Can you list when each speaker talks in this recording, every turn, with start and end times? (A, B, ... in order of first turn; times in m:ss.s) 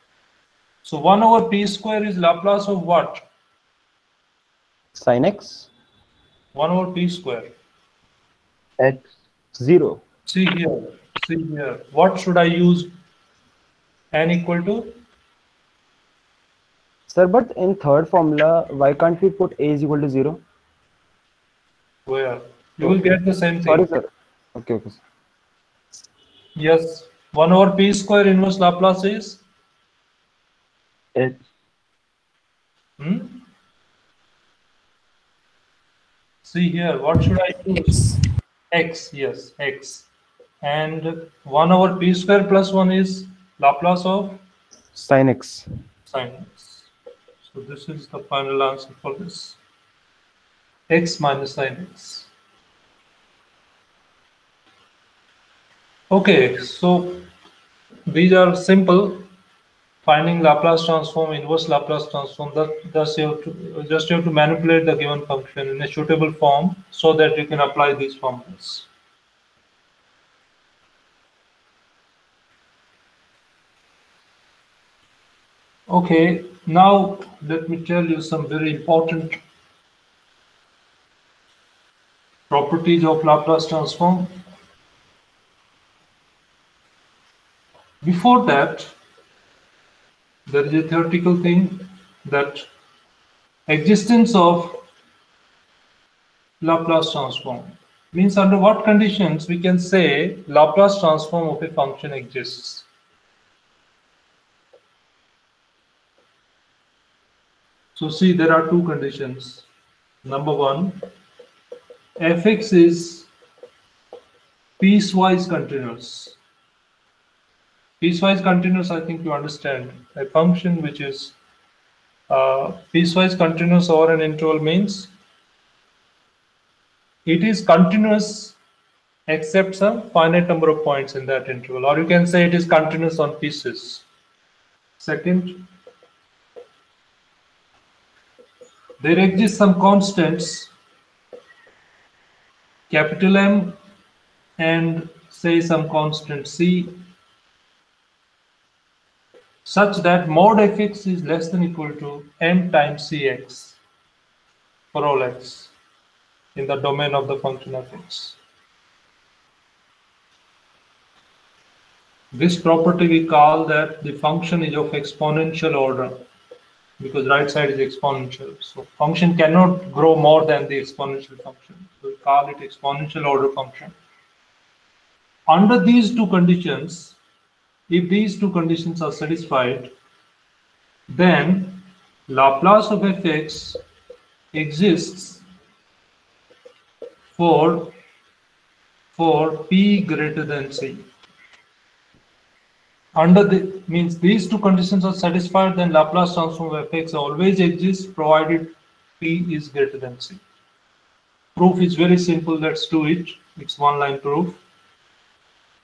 0:00.8-0:03.2 A
0:04.9-0:05.7 B
0:06.5-0:07.5 A
0:09.6-0:10.0 B
0:10.3-0:12.9 A
0:14.1-0:14.9 A
0:17.1-0:20.4 B
0:22.1-0:23.9 A
0:23.6-0:25.0 B
0:26.6-0:29.4 A
0:33.0-0:33.4 A
0:36.4-0:38.1 A
0:38.7-0:40.1 A
0:40.6-0:44.4 A
0:44.9-0:45.6 B
0:46.1-0:46.9 A
0:47.4-0:49.6 A
0:50.9-0:52.3 A
0:56.1-0:57.2 A
0:58.1-0:59.2 A
1:00.0-1:08.9 A
1:15.9-1:19.4 A
1:22.5-1:24.3 A
1:28.0-1:28.9 A
1:30.4-1:32.7 A
1:33.7-1:34.8 A
1:36.6-1:42.8 A
1:48.0-1:49.6 A
1:50.2-1:51.0 A
1:52.2-1:53.3 A
1:54.8-1:56.4 A
1:58.0-2:01.3 A
2:02.3-2:05.1 A
2:07.2-2:08.6 A
2:09.3-2:14.0 A
2:15.0-2:15.6 A
2:19.0-2:20.7 A
2:22.9-2:23.7 A
2:24.6-2:26.9 A
2:29.6-2:33.8 A
2:34.9-2:35.7 A
2:36.5-2:38.4 A
2:42.3-2:46.2 A
2:47.0-2:53.9 A
2:55.5-2:57.2 A
2:57.9-2:59.9 A
3:01.1-3:03.8 A
3:04.5-3:05.4 A
3:07.3-3:07.9 A
3:09.1-3:11.0 A
3:13.1-3:20.4 A
3:21.6-3:24.6 A